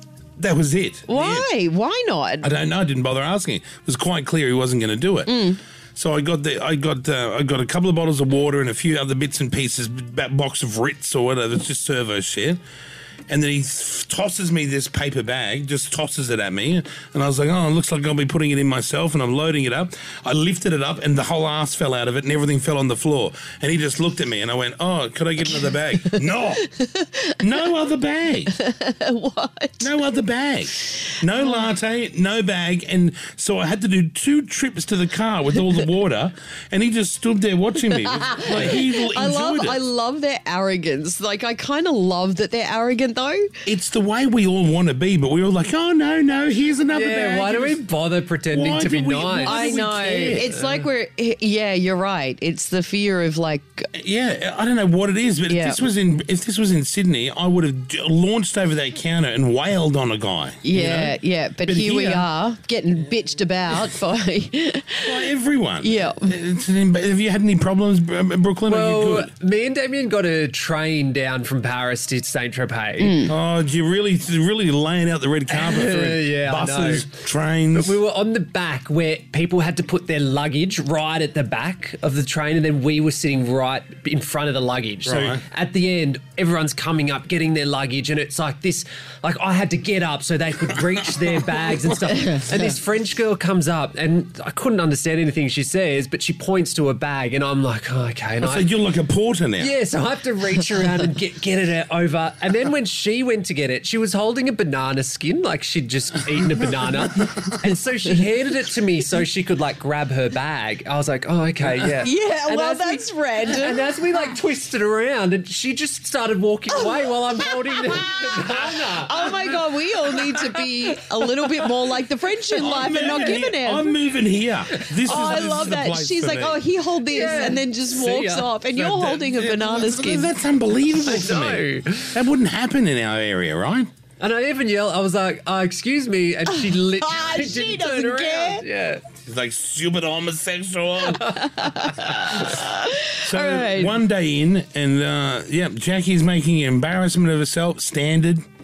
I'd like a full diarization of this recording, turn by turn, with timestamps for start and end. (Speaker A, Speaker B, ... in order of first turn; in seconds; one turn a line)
Speaker A: 0.4-1.5
Speaker B: 1.1-2.5
Speaker A: 2.4-5.4
Speaker B: 5.3-5.6
Speaker A: 6.0-12.6
Speaker A: 13.3-26.7
Speaker B: 26.7-27.3
Speaker A: 27.4-28.5
Speaker B: 28.6-29.9
Speaker A: 29.8-39.8
Speaker B: 37.9-43.5
Speaker A: 43.6-47.8
Speaker C: 46.9-50.6
Speaker A: 48.5-50.5
Speaker B: 49.4-53.9
Speaker A: 53.9-62.2
Speaker B: 55.5-55.8
Speaker B: 60.6-65.2
Speaker A: 65.0-69.3
Speaker B: 65.8-66.3
Speaker C: 68.7-73.3
Speaker B: 73.0-73.3
Speaker A: 73.2-78.0
Speaker C: 75.5-77.2
Speaker C: 77.7-98.7
Speaker A: 85.0-85.4
Speaker A: 98.4-99.7
Speaker C: 99.6-119.6
Speaker B: 112.0-113.8
Speaker B: 116.7-117.1
Speaker B: 117.8-118.2
Speaker B: 118.9-123.9
Speaker A: 122.5-126.7
Speaker B: 125.0-130.3
Speaker C: 125.1-125.5
Speaker C: 127.1-128.6
Speaker A: 128.7-133.9
Speaker C: 131.0-132.2
Speaker C: 134.2-139.0
Speaker B: 136.9-138.7
Speaker A: 139.2-142.6
Speaker B: 141.2-144.0
Speaker A: 143.2-148.4